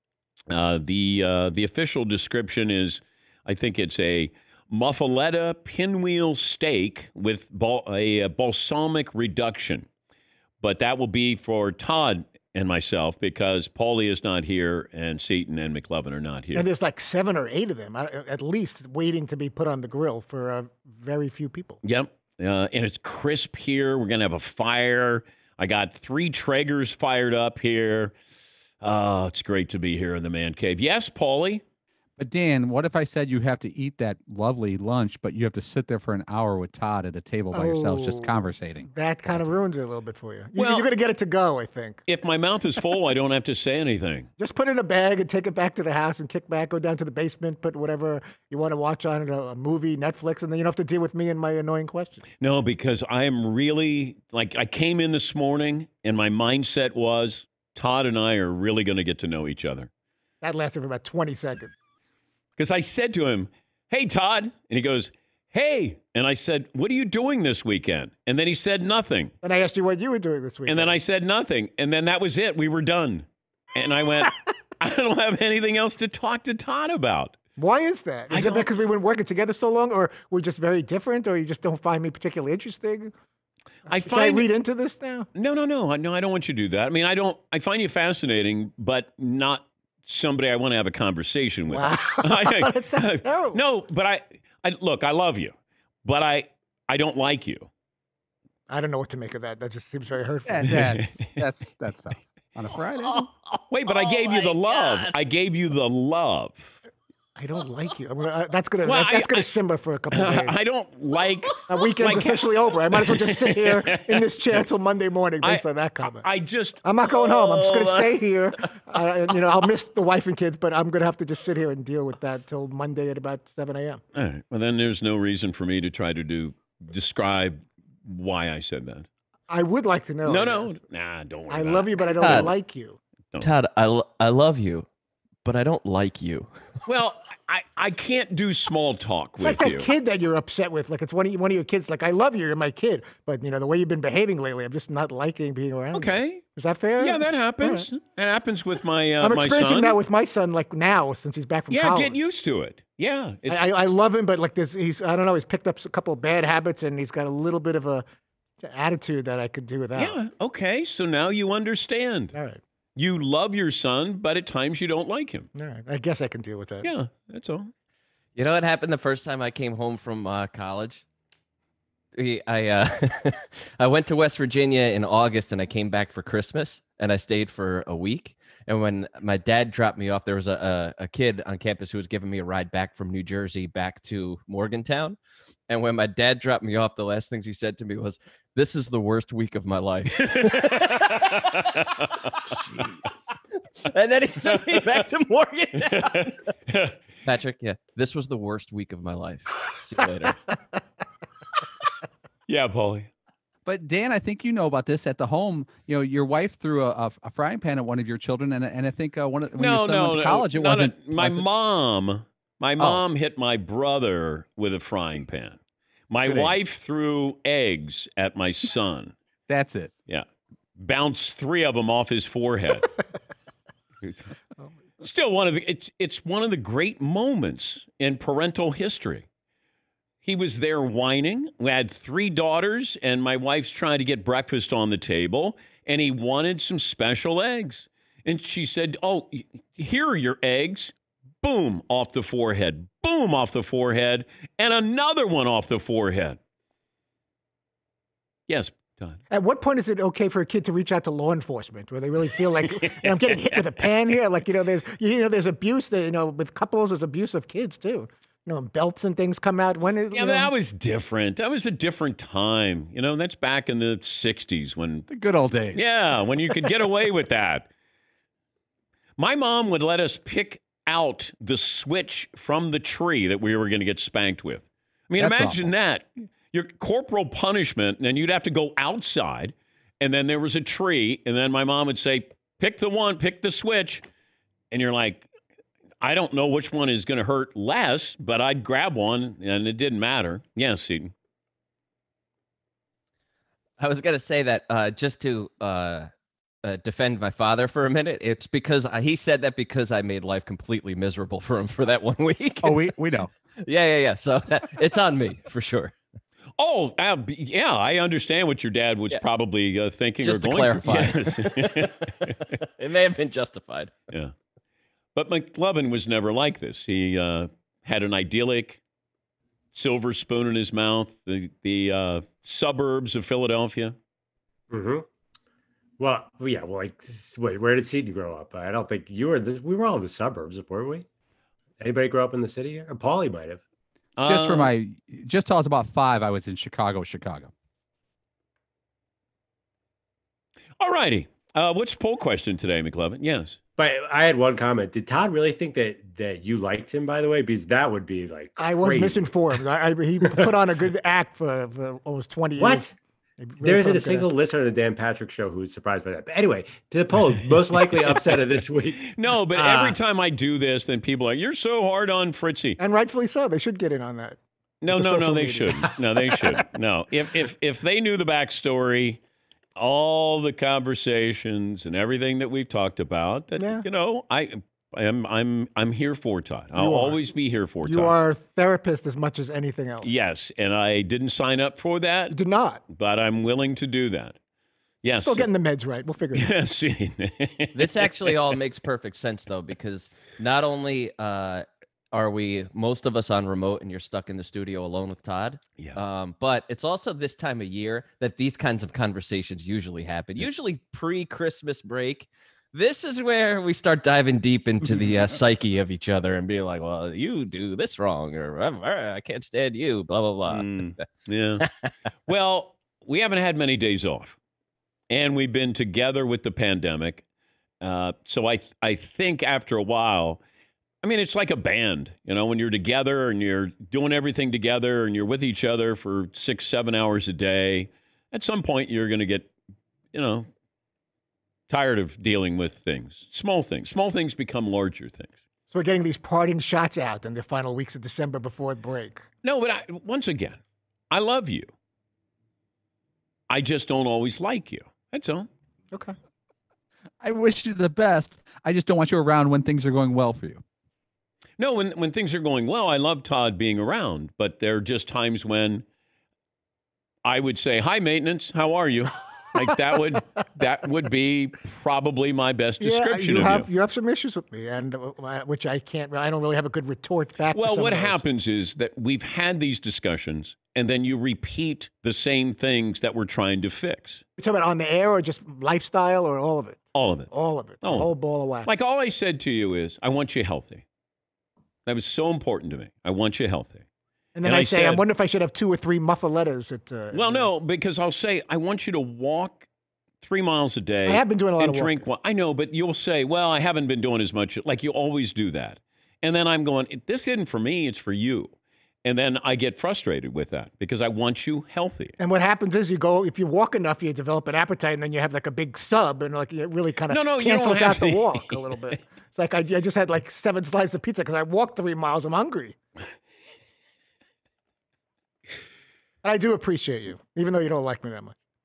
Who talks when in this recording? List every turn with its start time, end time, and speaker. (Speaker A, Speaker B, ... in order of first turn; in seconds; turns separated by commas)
Speaker A: 0.5-9.9, Speaker A: 10.6-16.6, Speaker B: 16.5-21.8, Speaker A: 21.8-28.1, Speaker A: 28.8-31.6, Speaker C: 32.2-39.4, Speaker B: 37.5-38.3, Speaker B: 38.9-42.0, Speaker A: 40.6-40.9, Speaker A: 42.1-44.3, Speaker B: 44.4-52.2, Speaker A: 52.4-59.9, Speaker B: 60.4-61.8, Speaker A: 62.5-69.3, Speaker B: 69.4-71.0, Speaker A: 70.7-77.3, Speaker B: 77.6-83.1, Speaker A: 78.3-78.7, Speaker A: 83.9-84.5, Speaker B: 83.9-85.3, Speaker A: 85.3-97.7, Speaker B: 91.7-93.6, Speaker B: 98.7-100.7, Speaker C: 100.5-103.3, Speaker A: 100.7-101.4, Speaker A: 103.7-106.8, Speaker D: 103.9-105.1, Speaker B: 107.4-110.6, Speaker A: 108.8-109.5, Speaker A: 110.1-114.2, Speaker B: 111.7-116.3, Speaker A: 115.4-118.1, Speaker B: 116.8-124.0, Speaker A: 124.1-129.1, Speaker B: 129.5-130.8, Speaker A: 130.2-132.5, Speaker B: 131.5-133.0, Speaker D: 132.2-132.5, Speaker D: 133.4-134.9, Speaker D: 135.4-136.5, Speaker A: 136.8-139.9, Speaker B: 139.4-147.9, Speaker A: 145.9-146.4, Speaker A: 147.0-150.0, Speaker B: 149.2-152.2, Speaker A: 151.7-153.7, Speaker B: 153.5-158.0, Speaker B: 158.6-160.2, Speaker A: 159.9-162.3, Speaker B: 162.3-162.6, Speaker A: 162.9-165.5, Speaker B: 165.5-166.9, Speaker A: 166.8-167.7, Speaker D: 168.3-171.0, Speaker D: 172.1-185.2, Speaker D: 185.7-192.9, Speaker A: 190.3-192.5, Speaker D: 193.8-196.3, Speaker A: 195.9-197.0, Speaker D: 197.2-200.5, Speaker A: 202.5-203.1, Speaker C: 203.7-211.4, Speaker A: 209.6-219.1, Speaker C: 212.8-213.0, Speaker C: 219.5-219.9, Speaker A: 220.8-222.9, Speaker A: 224.0-224.3, Speaker A: 225.0-229.3, Speaker A: 230.2-246.4, Speaker A: 248.5-249.2, Speaker B: 249.3-260.5, Speaker A: 260.1-265.1, Speaker C: 265.1-265.8, Speaker A: 265.7-267.7, Speaker A: 269.2-284.0, Speaker C: 275.2-275.7, Speaker A: 284.7-285.3, Speaker A: 286.0-291.1, Speaker D: 293.8-296.1, Speaker D: 296.6-302.9, Speaker C: 302.6-303.3, Speaker D: 303.6-305.9, Speaker A: 306.6-312.3, Speaker D: 310.2-313.9, Speaker A: 315.1-318.8, Speaker A: 319.7-323.9, Speaker E: 324.7-325.1, Speaker E: 326.0-331.1, Speaker E: 331.8-333.6, Speaker A: 334.2-334.7, Speaker C: 334.2-337.5, Speaker A: 340.8-343.6, Speaker E: 343.8-349.3, Speaker B: 348.6-354.3, Speaker E: 352.6-352.9, Speaker E: 353.6-360.0, Speaker A: 359.1-362.8, Speaker B: 362.8-364.4, Speaker A: 364.8-369.2, Speaker B: 364.9-365.9, Speaker A: 369.8-378.1, Speaker B: 373.6-373.9, Speaker B: 376.8-377.2, Speaker B: 377.8-380.1, Speaker A: 380.0-382.4, Speaker B: 382.3-382.8, Speaker A: 382.9-384.4, Speaker A: 385.0-385.5, Speaker B: 385.1-386.5, Speaker A: 386.3-387.9, Speaker D: 387.7-410.9, Speaker A: 410.5-411.6, Speaker A: 412.3-414.4, Speaker A: 415.1-417.2, Speaker A: 417.8-420.4, Speaker A: 421.0-429.5, Speaker A: 430.1-430.5, Speaker A: 431.7-435.4, Speaker B: 435.7-439.2, Speaker A: 439.4-441.7, Speaker A: 443.5-445.5, Speaker C: 447.2-450.6, Speaker A: 451.6-455.8, Speaker A: 457.2-463.7, Speaker B: 462.8-468.2, Speaker A: 467.5-474.2, Speaker B: 474.4-478.7, Speaker A: 476.9-477.3, Speaker A: 477.8-478.1, Speaker A: 478.6-480.8, Speaker A: 481.9-483.8, Speaker B: 484.3-487.5, Speaker A: 484.4-485.0, Speaker A: 487.1-489.7, Speaker A: 490.2-502.1, Speaker B: 491.1-492.1, Speaker B: 502.2-512.8, Speaker A: 507.1-508.6, Speaker B: 516.2-518.3